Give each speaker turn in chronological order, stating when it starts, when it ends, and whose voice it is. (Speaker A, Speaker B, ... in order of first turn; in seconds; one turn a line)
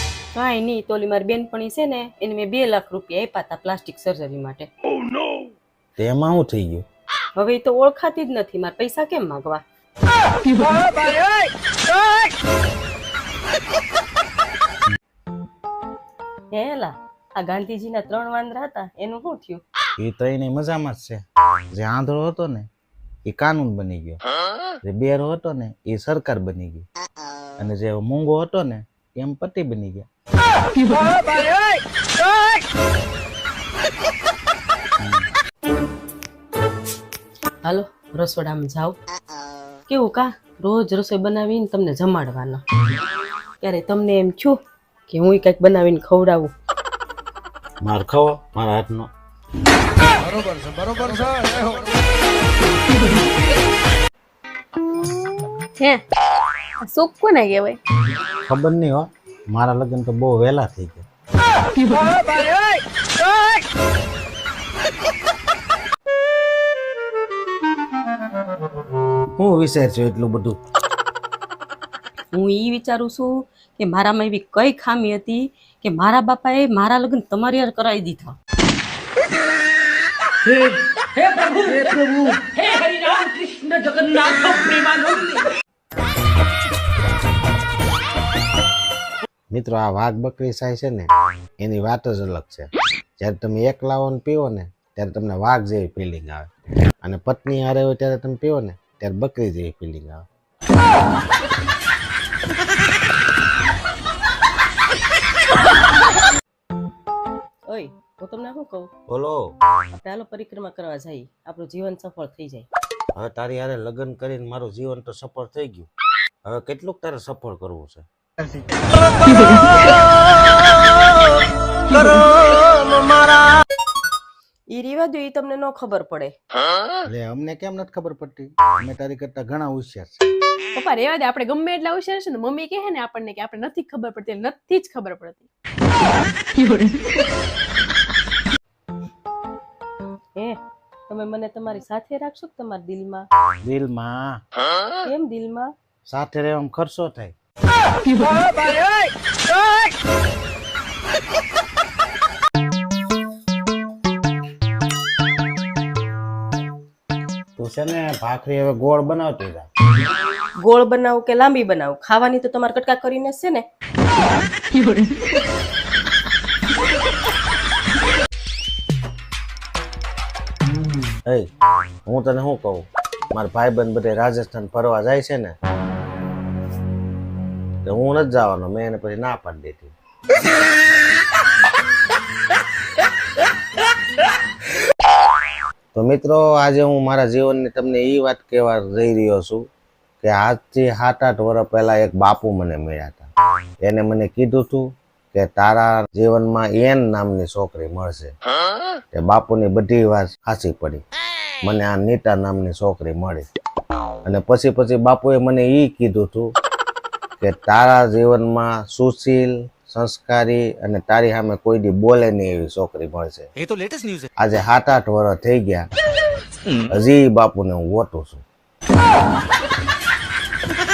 Speaker A: 0.3-4.7
Speaker B: 6.0-6.8
Speaker A: 7.4-9.6
Speaker A: 10.6-11.1
Speaker A: 16.5-19.6
Speaker B: 20.0-21.2
Speaker B: 21.7-22.7
Speaker B: 23.3-24.2
Speaker B: 24.9-26.9
Speaker B: 27.6-30.1
Speaker A: 37.6-39.0
Speaker A: 39.9-42.6
Speaker A: 43.6-46.5
Speaker B: 47.8-49.1
Speaker C: 56.8-57.8
Speaker B: 58.5-61.1
Speaker B: 69.4-70.6
Speaker A: 72.3-78.3
Speaker D: 81.2-81.8
Speaker D: 83.6-85.3
Speaker B: 89.5-91.1
Speaker B: 91.6-92.7
Speaker B: 93.2-96.5
Speaker B: 97.0-100.2
Speaker A: 107.7-108.9
Speaker B: 109.1-109.5
Speaker A: 110.0-112.7
Speaker B: 113.2-115.9
Speaker B: 116.5-118.1
Speaker A: 122.0-123.4
Speaker A: 124.7-126.3
Speaker B: 127.1-130.2
Speaker C: 130.8-135.5
Speaker A: 140.4-143.3
Speaker B: 143.6-144.4
Speaker A: 145.0-145.7
Speaker B: 146.1-147.3
Speaker B: 157.6-159.7
Speaker A: 160.6-163.7
Speaker B: 172.1-175.6
Speaker B: 177.8-179.9
Speaker B: 185.9-189.6
Speaker B: 190.2-193.3
Speaker B: 193.8-198.3
Speaker B: 199.1-201.0
Speaker B: 201.6-203.5
Speaker B: 204.2-206.5
Speaker B: 207.4-213.5
Speaker D: 213.6-214.3
Speaker B: 214.4-215.9
Speaker B: 216.9-218.4